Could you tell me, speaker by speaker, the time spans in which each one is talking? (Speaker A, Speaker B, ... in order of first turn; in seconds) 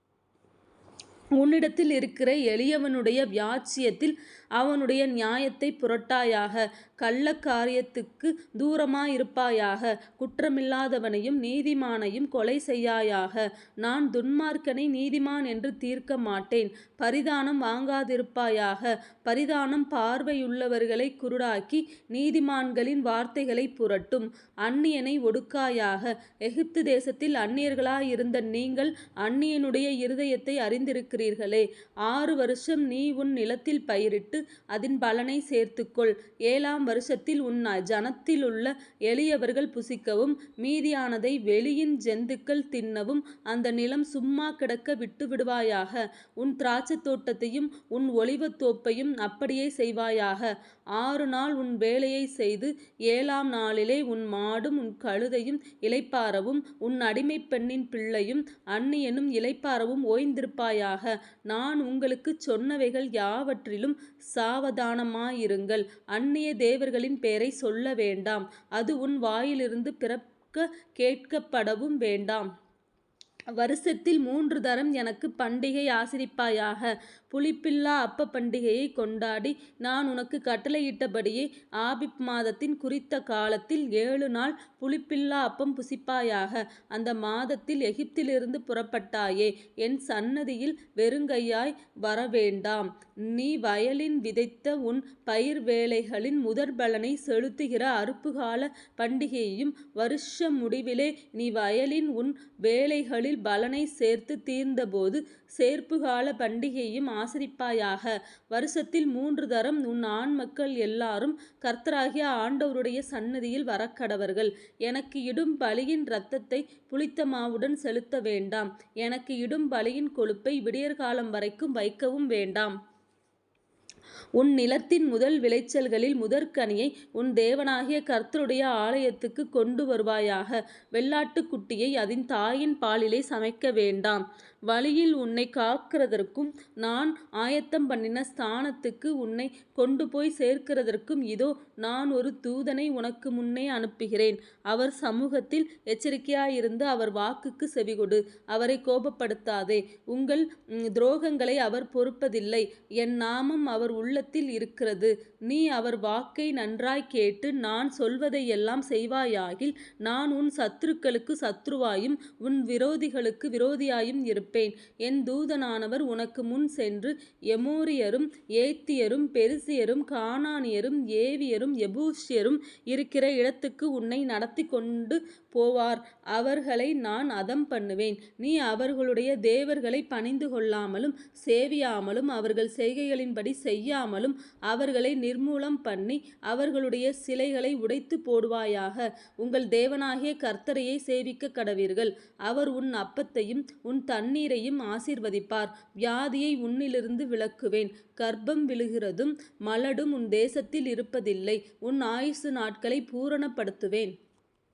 Speaker A: 1.3-72.5, 73.5-122.7, 124.4-204.1